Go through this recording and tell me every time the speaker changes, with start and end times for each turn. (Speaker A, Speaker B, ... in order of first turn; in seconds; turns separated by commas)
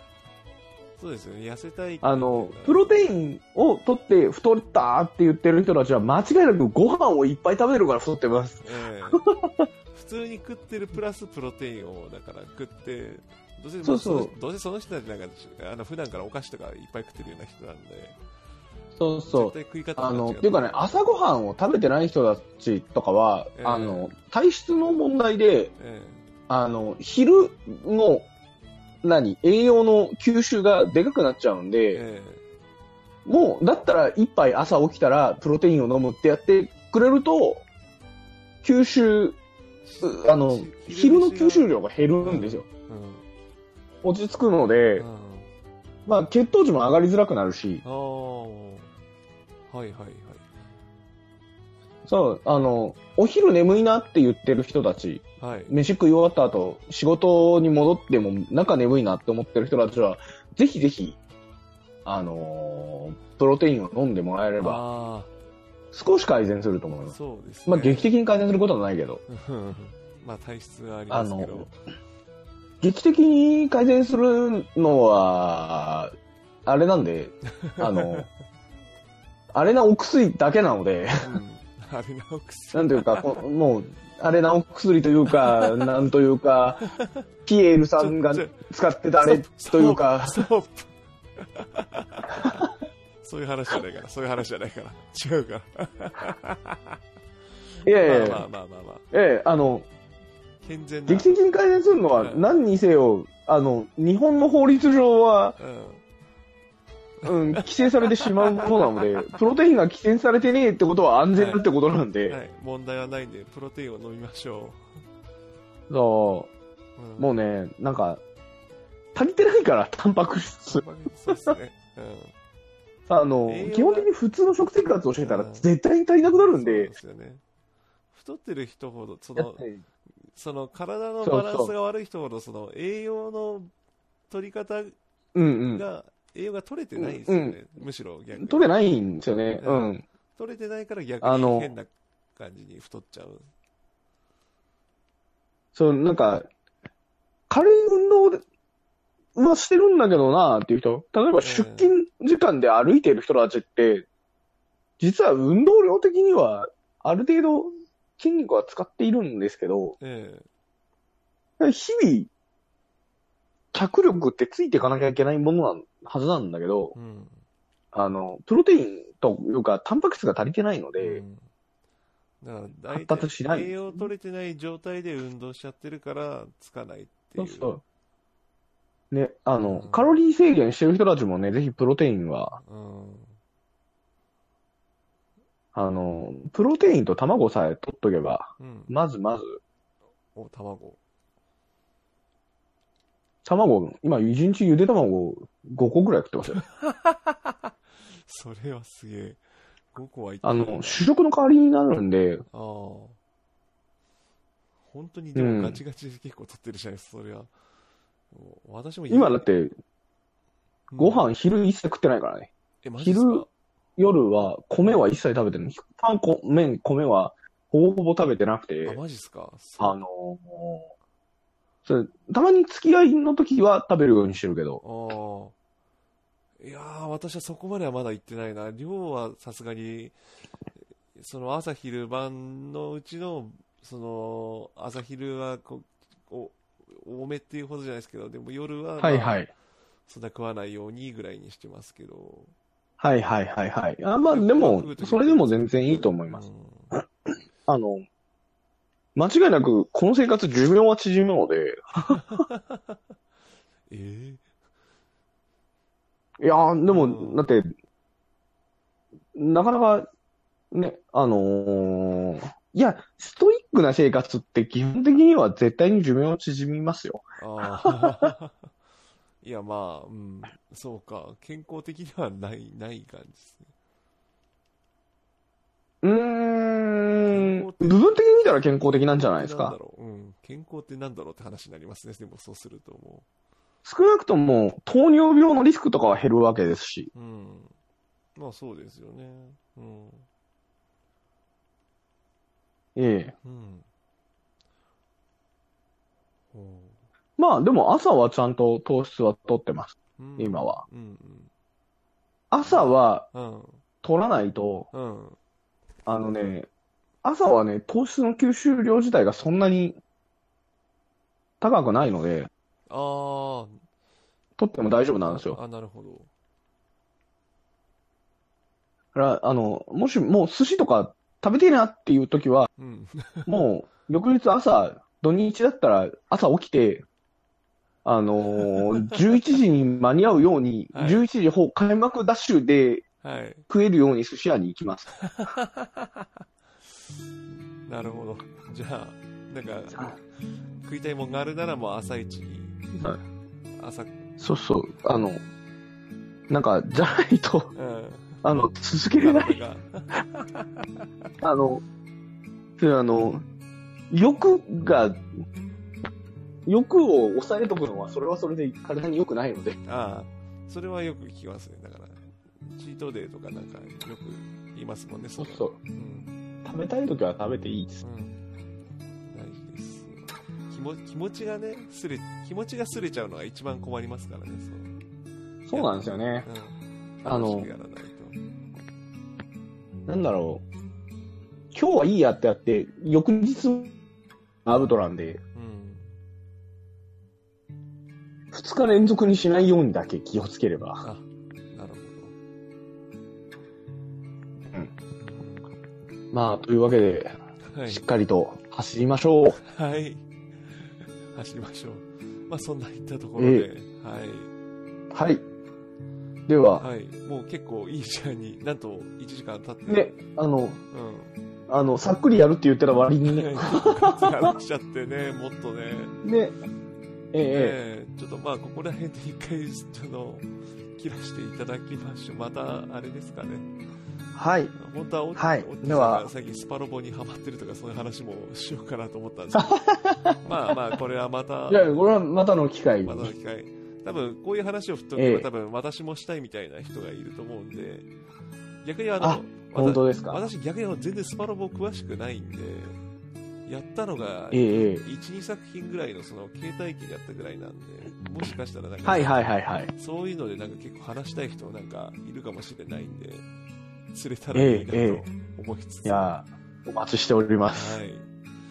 Speaker A: 1.0-3.0, Speaker B: 2.0-9.7, Speaker A: 8.6-9.3, Speaker A: 9.9-18.2, Speaker B: 13.8-14.3, Speaker B: 18.9-25.7, Speaker A: 19.3-21.1, Speaker A: 23.6-24.1, Speaker A: 25.8-26.2, Speaker B: 26.5-28.3, Speaker B: 29.0-32.0, Speaker A: 31.9-32.4, Speaker B: 33.3-37.6, Speaker B: 38.6-39.4, Speaker A: 39.8-43.3, Speaker B: 40.0-42.6, Speaker B: 44.0-45.0, Speaker A: 45.0-45.5, Speaker B: 46.0-47.8, Speaker A: 47.8-48.9, Speaker A: 49.7-50.5, Speaker B: 52.0-61.2, Speaker A: 55.4-55.8, Speaker B: 62.0-64.8, Speaker A: 64.6-65.3, Speaker B: 65.9-67.1, Speaker A: 67.1-68.1, Speaker B: 67.7-69.2, Speaker A: 69.3-71.7, Speaker B: 71.1-71.7, Speaker B: 72.8-76.1, Speaker B: 76.6-78.3, Speaker A: 77.6-78.3, Speaker B: 79.5-81.4, Speaker A: 81.2-83.5, Speaker B: 82.7-86.8, Speaker A: 85.4-85.9, Speaker A: 86.9-87.2, Speaker B: 87.5-90.4, Speaker A: 88.0-88.6, Speaker A: 89.2-92.7, Speaker A: 93.2-97.0, Speaker B: 97.8-98.4, Speaker A: 98.0-99.0, Speaker B: 99.1-99.9, Speaker A: 100.6-101.3, Speaker B: 101.1-105.6, Speaker A: 102.2-102.5, Speaker A: 105.6-106.0, Speaker A: 107.2-109.4, Speaker B: 107.2-112.4, Speaker A: 111.3-111.6, Speaker A: 112.3-114.8, Speaker B: 115.9-116.5, Speaker A: 117.0-117.3, Speaker B: 117.2-118.2, Speaker B: 119.1-121.5, Speaker A: 120.7-122.3, Speaker B: 123.1-126.9, Speaker A: 123.5-124.1, Speaker A: 125.2-125.7, Speaker A: 126.3-127.4, Speaker A: 128.1-129.7, Speaker B: 129.4-129.8, Speaker A: 130.3-133.7, Speaker B: 131.2-131.7, Speaker A: 134.3-135.0, Speaker B: 135.3-135.8, Speaker A: 135.7-138.7, Speaker B: 137.0-137.6, Speaker B: 138.3-140.0, Speaker A: 139.6-143.5, Speaker B: 141.2-141.7, Speaker B: 145.7-146.5, Speaker B: 147.5-148.4, Speaker B: 149.4-154.1, Speaker A: 151.4-151.9, Speaker B: 155.0-160.0, Speaker A: 160.0-160.4, Speaker B: 161.6-162.3, Speaker B: 163.7-166.9, Speaker A: 166.9-167.4, Speaker B: 167.9-171.2, Speaker A: 170.9-171.5, Speaker A: 172.4-177.7, Speaker B: 172.9-174.1, Speaker B: 177.4-177.8, Speaker B: 179.1-182.6, Speaker A: 179.6-180.2, Speaker A: 182.6-183.4, Speaker B: 185.7-189.6, Speaker A: 188.6-188.9, Speaker A: 190.3-191.0, Speaker B: 193.4-196.6, Speaker A: 196.6-199.4, Speaker A: 199.9-201.1, Speaker B: 200.4-202.4, Speaker A: 202.5-203.2, Speaker A: 204.8-207.5, Speaker B: 205.4-205.8, Speaker A: 208.3-209.4, Speaker B: 209.1-209.7, Speaker A: 210.9-211.2, Speaker B: 211.0-213.4, Speaker A: 212.8-213.5, Speaker B: 214.0-219.0, Speaker A: 218.8-220.0, Speaker B: 219.8-220.9, Speaker B: 221.9-224.8, Speaker A: 224.8-225.5, Speaker A: 226.6-230.2, Speaker A: 231.2-239.5, Speaker B: 239.0-239.5, Speaker A: 240.1-242.5, Speaker B: 243.0-247.0, Speaker A: 244.3-247.0, Speaker B: 247.7-248.1, Speaker B: 249.1-252.2, Speaker A: 252.1-253.0, Speaker A: 253.9-254.4, Speaker B: 256.4-257.7, Speaker A: 256.9-257.4, Speaker B: 259.3-260.1, Speaker B: 260.7-268.3, Speaker A: 267.4-268.7, Speaker A: 269.4-273.7, Speaker B: 276.0-279.8, Speaker A: 277.3-278.0, Speaker A: 279.2-283.3, Speaker B: 283.8-287.1, Speaker A: 287.1-287.7, Speaker A: 288.4-290.3, Speaker B: 292.9-293.3, Speaker A: 293.4-293.8, Speaker A: 296.5-297.0, Speaker B: 297.4-300.8, Speaker A: 300.2-301.5, Speaker B: 302.5-303.3, Speaker A: 302.6-303.8, Speaker B: 304.0-304.9, Speaker A: 304.9-305.4, Speaker B: 306.1-306.7, Speaker B: 307.2-310.0, Speaker B: 311.6-312.5, Speaker A: 312.9-313.8, Speaker B: 314.6-315.6, Speaker A: 315.1-316.3, Speaker B: 319.1-322.7, Speaker A: 322.8-323.7, Speaker B: 323.5-327.1, Speaker B: 328.1-333.1, Speaker A: 328.7-329.2, Speaker A: 330.9-331.2, Speaker A: 333.2-333.6, Speaker B: 333.7-335.1, Speaker A: 335.2-336.3, Speaker A: 337.8-340.2, Speaker A: 340.8-342.8, Speaker A: 343.8-344.2, Speaker B: 344.4-345.4, Speaker B: 346.5-347.7, Speaker A: 347.7-351.3, Speaker B: 348.4-349.6, Speaker B: 351.4-351.8, Speaker B: 352.8-353.4, Speaker B: 354.1-355.3, Speaker B: 356.7-359.8, Speaker A: 359.8-366.4, Speaker B: 365.4-365.7, Speaker B: 366.6-368.0, Speaker A: 368.0-368.4, Speaker A: 369.3-374.9, Speaker B: 375.6-376.4, Speaker A: 375.7-378.4, Speaker B: 377.2-377.7, Speaker B: 380.1-380.6, Speaker B: 381.7-383.9, Speaker B: 384.6-385.4, Speaker A: 385.6-386.1, Speaker B: 388.5-391.0, Speaker A: 391.0-392.3, Speaker A: 395.2-395.7, Speaker B: 396.3-397.3, Speaker A: 397.7-398.1, Speaker B: 397.9-399.6, Speaker A: 399.6-404.5, Speaker B: 403.4-403.7, Speaker B: 405.1-405.4, Speaker B: 406.5-406.8, Speaker A: 406.8-410.2, Speaker B: 409.9-410.8, Speaker A: 410.9-411.3, Speaker B: 411.7-414.5, Speaker A: 413.2-416.2, Speaker B: 416.2-416.5, Speaker B: 417.3-417.8, Speaker A: 417.4-423.7, Speaker B: 424.4-424.7, Speaker A: 424.8-429.8, Speaker B: 425.4-426.3, Speaker B: 429.6-430.4, Speaker A: 430.4-432.0, Speaker B: 431.7-433.3, Speaker A: 433.1-438.1, Speaker B: 435.2-435.5, Speaker A: 438.8-443.0, Speaker B: 439.2-440.4, Speaker A: 443.7-449.4, Speaker B: 444.5-445.0, Speaker B: 449.1-449.9, Speaker A: 449.9-453.4, Speaker A: 454.1-456.4, Speaker B: 454.5-455.2, Speaker B: 456.1-458.0, Speaker A: 457.7-458.3